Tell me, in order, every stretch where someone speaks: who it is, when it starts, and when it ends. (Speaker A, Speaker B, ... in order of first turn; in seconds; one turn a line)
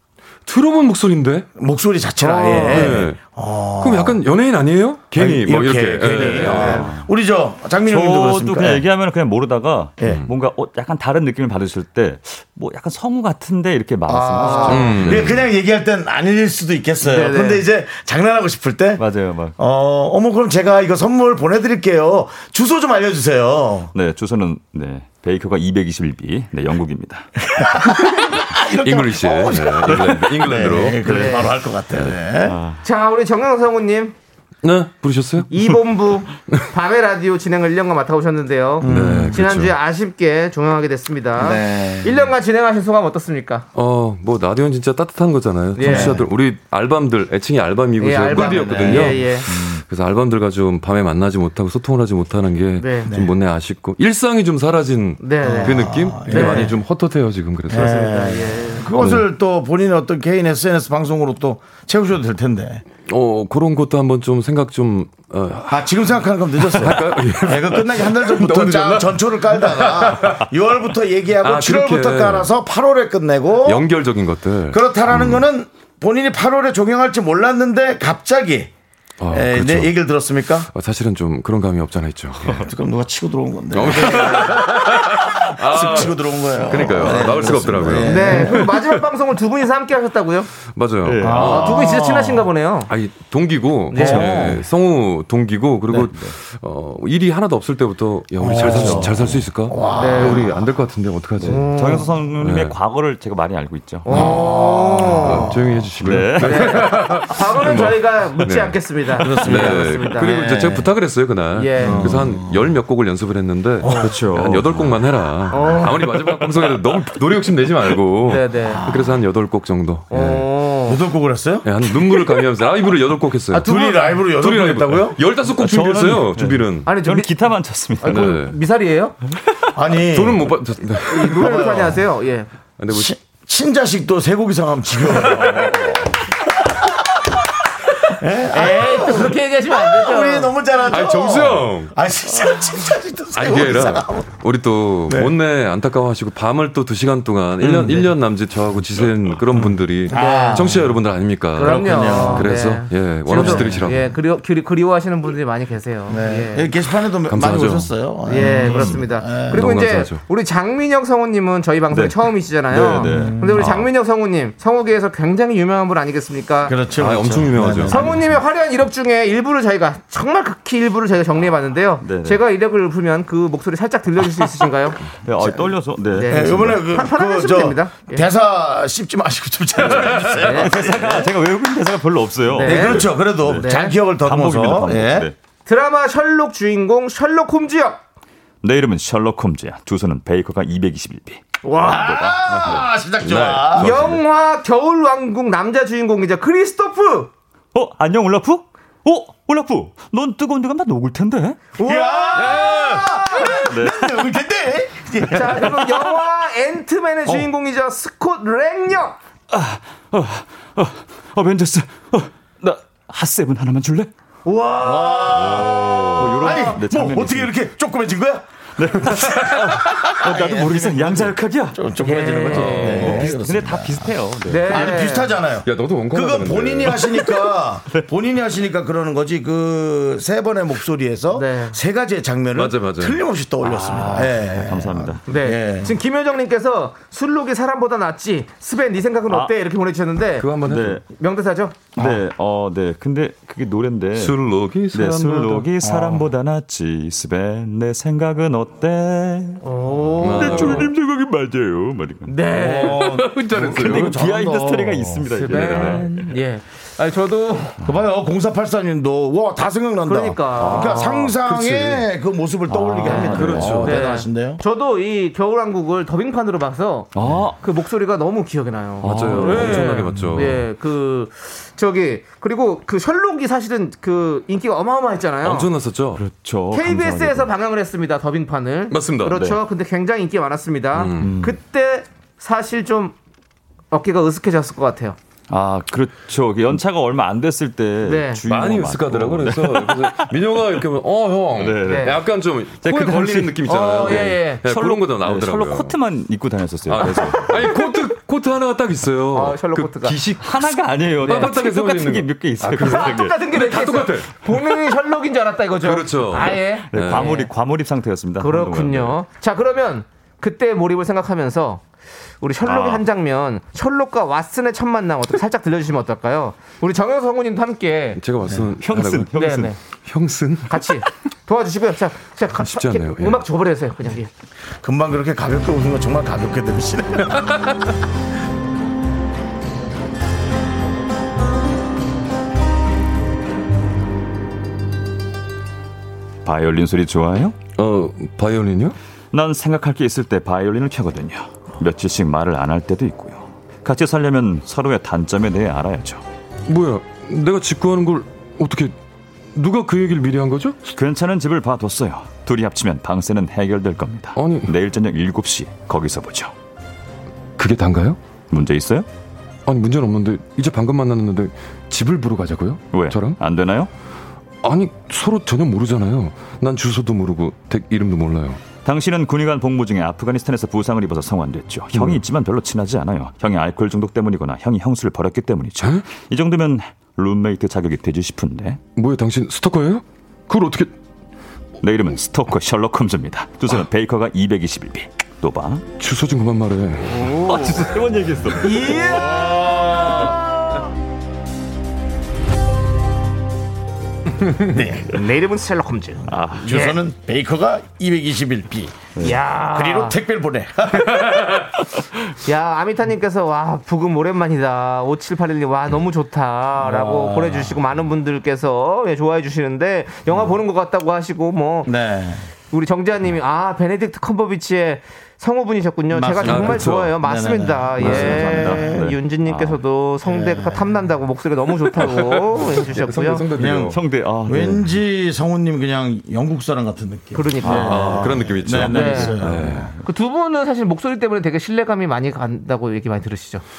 Speaker A: 0.5-1.5
Speaker B: 1.6-4.2
Speaker C: 2.2-3.0
Speaker A: 2.6-3.2
Speaker A: 3.8-6.9
Speaker B: 5.2-8.9
Speaker D: 6.2-7.1
Speaker D: 7.8-15.4
Speaker B: 10.0-10.2
Speaker A: 10.0-10.3
Speaker B: 14.1-19.0
Speaker C: 14.4-14.9
Speaker A: 14.7-15.5
Speaker C: 17.0-17.6
Speaker D: 19.0-19.6
Speaker B: 19.6-23.9
Speaker D: 23.9-27.3
Speaker B: 27.5-32.6
Speaker A: 28.0-31.1
Speaker C: 31.0-31.6
Speaker D: 32.4-32.8
Speaker C: 32.8-34.1
Speaker A: 34.6-35.5
Speaker C: 35.5-43.7
Speaker B: 38.8-39.5
Speaker A: 38.8-39.8
Speaker B: 41.4-42.2
Speaker A: 43.8-58.1
Speaker C: 45.8-46.2
Speaker B: 45.8-46.2
Speaker C: 48.0-49.5
Speaker B: 48.3-49.4
Speaker C: 52.8-53.1
Speaker C: 55.2-56.7
Speaker B: 55.4-56.7
Speaker B: 57.7-62.8
Speaker C: 57.7-58.9
Speaker A: 59.0-59.3
Speaker A: 63.0-66.0
Speaker B: 65.7-73.8
Speaker A: 66.6-70.5
Speaker A: 71.4-72.5
Speaker A: 73.6-75.4
Speaker B: 74.7-78.7
Speaker A: 79.2-80.0
Speaker B: 79.3-80.7
Speaker A: 80.7-82.7
Speaker B: 82.6-88.7
Speaker A: 83.7-88.7
Speaker C: 88.0-90.5
Speaker A: 90.7-92.0
Speaker D: 91.0-91.7
Speaker B: 91.2-92.5
Speaker C: 91.4-92.9
Speaker A: 92.9-101.8
Speaker C: 93.9-94.5
Speaker D: 94.0-94.6
Speaker B: 94.0-94.5
Speaker D: 95.9-96.4
Speaker B: 98.4-100.6
Speaker D: 98.5-99.4
Speaker C: 99.9-100.5
Speaker D: 101.4-104.3
Speaker C: 101.5-102.1
Speaker A: 102.4-102.8
Speaker C: 104.0-105.5
Speaker A: 104.1-104.5
Speaker B: 104.1-105.9
Speaker A: 105.1-120.5
Speaker D: 106.0-106.9
Speaker C: 106.4-110.7
Speaker B: 109.2-110.7
Speaker C: 111.5-112.1
Speaker B: 111.8-112.7
Speaker D: 111.8-112.2
Speaker B: 113.8-114.2
Speaker D: 113.8-115.0
Speaker C: 115.5-116.1
Speaker D: 116.3-116.9
Speaker C: 118.3-118.8
Speaker B: 118.7-119.2
Speaker C: 120.1-121.0
Speaker B: 120.9-122.1
Speaker A: 121.6-127.0
Speaker B: 123.5-125.2
Speaker D: 125.5-128.4
Speaker C: 126.9-127.3
Speaker C: 128.0-129.2
Speaker A: 128.1-128.6
Speaker B: 129.8-130.5
Speaker A: 130.1-131.7
Speaker C: 131.1-132.5
Speaker B: 131.2-132.0
Speaker A: 132.8-133.1
Speaker B: 132.9-136.1
Speaker A: 135.5-135.7
Speaker B: 138.1-144.3
Speaker C: 138.5-140.6
Speaker A: 140.9-141.9
Speaker A: 143.3-154.1
Speaker B: 145.1-145.3
Speaker B: 147.6-148.1
Speaker B: 149.5-151.0
Speaker C: 150.1-150.7
Speaker C: 151.6-156.7
Speaker B: 151.6-152.5
Speaker B: 153.3-153.9
Speaker B: 156.1-159.7
Speaker A: 157.3-157.9
Speaker C: 158.3-166.8
Speaker A: 159.4-160.2
Speaker D: 161.9-163.8
Speaker B: 163.0-163.8
Speaker B: 166.7-168.2
Speaker A: 167.0-168.2
Speaker C: 167.8-175.1
Speaker D: 172.0-172.4
Speaker D: 175.2-176.9
Speaker C: 176.1-178.3
Speaker B: 176.3-181.3
Speaker D: 179.8-185.3
Speaker C: 180.2-180.7
Speaker C: 182.5-184.0
Speaker B: 182.6-185.3
Speaker C: 185.7-188.0
Speaker D: 188.6-193.5
Speaker C: 191.6-192.2
Speaker B: 191.8-193.9
Speaker A: 193.2-194.2
Speaker C: 193.7-197.3
Speaker D: 197.7-201.7
Speaker C: 201.8-203.7
Speaker B: 201.8-205.8
Speaker A: 202.4-203.2
Speaker D: 203.7-204.3
Speaker C: 205.3-209.2
Speaker D: 209.5-214.1
Speaker C: 214.4-216.8
Speaker B: 214.8-218.5
Speaker A: 215.3-216.5
Speaker D: 216.1-217.5
Speaker D: 218.8-225.0
Speaker B: 219.0-224.1
Speaker A: 219.1-220.2
Speaker C: 222.0-223.3
Speaker A: 222.7-223.0
Speaker C: 224.5-225.4
Speaker B: 224.7-235.9
Speaker A: 225.6-227.1
Speaker C: 231.3-231.8
Speaker A: 232.6-233.2
Speaker D: 233.6-235.2
Speaker C: 235.3-240.5
Speaker D: 239.3-239.5
Speaker A: 240.4-241.0
Speaker D: 240.6-241.0
Speaker C: 241.1-241.8
Speaker D: 241.9-249.6
Speaker A: 244.2-245.7
Speaker B: 245.9-246.2
Speaker C: 249.6-250.9
Speaker A: 250.2-250.9
Speaker D: 250.3-252.5
Speaker C: 252.3-253.1
Speaker B: 252.5-255.3
Speaker A: 252.8-254.2
Speaker D: 253.5-256.3
Speaker A: 255.5-256.0
Speaker C: 255.5-257.8
Speaker B: 257.8-264.6
Speaker C: 260.1-261.4
Speaker D: 260.6-261.3
Speaker A: 261.5-262.0
Speaker D: 262.7-263.9
Speaker C: 263.0-275.7
Speaker A: 263.1-264.1
Speaker D: 267.1-267.6
Speaker A: 269.0-270.6
Speaker D: 269.1-270.5
Speaker A: 275.4-276.2
Speaker D: 276.2-277.5
Speaker C: 276.7-283.2
Speaker A: 278.9-279.5
Speaker A: 280.9-281.4
Speaker D: 281.2-281.6
Speaker C: 283.9-285.2
Speaker D: 285.5-290.8
Speaker C: 288.0-288.4
Speaker A: 288.5-296.0
Speaker D: 291.6-292.2
Speaker C: 291.8-292.2
Speaker D: 292.8-297.7
Speaker C: 293.6-294.6
Speaker A: 296.9-304.3
Speaker C: 297.4-297.7
Speaker C: 299.3-300.2
Speaker D: 300.4-303.4
Speaker C: 301.2-301.5
Speaker C: 302.8-307.5
Speaker A: 305.8-307.4
Speaker D: 306.9-309.2
Speaker C: 308.4-311.8
Speaker C: 312.4-318.2
Speaker D: 312.6-313.0
Speaker A: 318.1-319.4
Speaker D: 318.6-319.8
Speaker C: 319.3-319.8
Speaker A: 319.9-320.9
Speaker C: 320.7-324.3
Speaker A: 322.6-323.5
Speaker B: 324.8-327.5
Speaker D: 336.4-337.6
Speaker A: 337.8-339.0
Speaker D: 339.3-346.2
Speaker A: 346.7-348.9
Speaker A: 349.5-350.8
Speaker D: 350.9-356.5
Speaker A: 354.4-354.8
Speaker A: 357.6-358.2
Speaker D: 358.5-359.1
Speaker A: 359.7-363.4
Speaker D: 362.9-363.9
Speaker A: 364.6-368.7
Speaker D: 368.8-378.8
Speaker A: 371.9-372.2
Speaker A: 375.8-376.1
Speaker A: 379.0-380.9
Speaker D: 381.8-385.9
Speaker A: 386.0-387.4
Speaker C: 387.1-387.7
Speaker D: 387.2-389.4
Speaker C: 388.6-390.8
Speaker B: 394.6-395.1
Speaker C: 395.1-397.0
Speaker D: 396.3-396.7
Speaker B: 396.6-401.6
Speaker C: 399.2-400.2
Speaker C: 402.4-411.9
Speaker B: 406.8-407.8
Speaker B: 411.9-412.5
Speaker C: 412.7-423.5
Speaker B: 416.1-419.1
Speaker A: 416.4-417.2
Speaker D: 418.0-419.8
Speaker A: 418.0-418.6
Speaker B: 420.2-420.9
Speaker A: 421.9-424.0
Speaker B: 423.6-429.9
Speaker D: 423.8-424.9
Speaker C: 427.3-428.2
Speaker D: 427.6-430.0
Speaker A: 427.7-429.9
Speaker C: 428.9-429.4
Speaker C: 430.0-433.6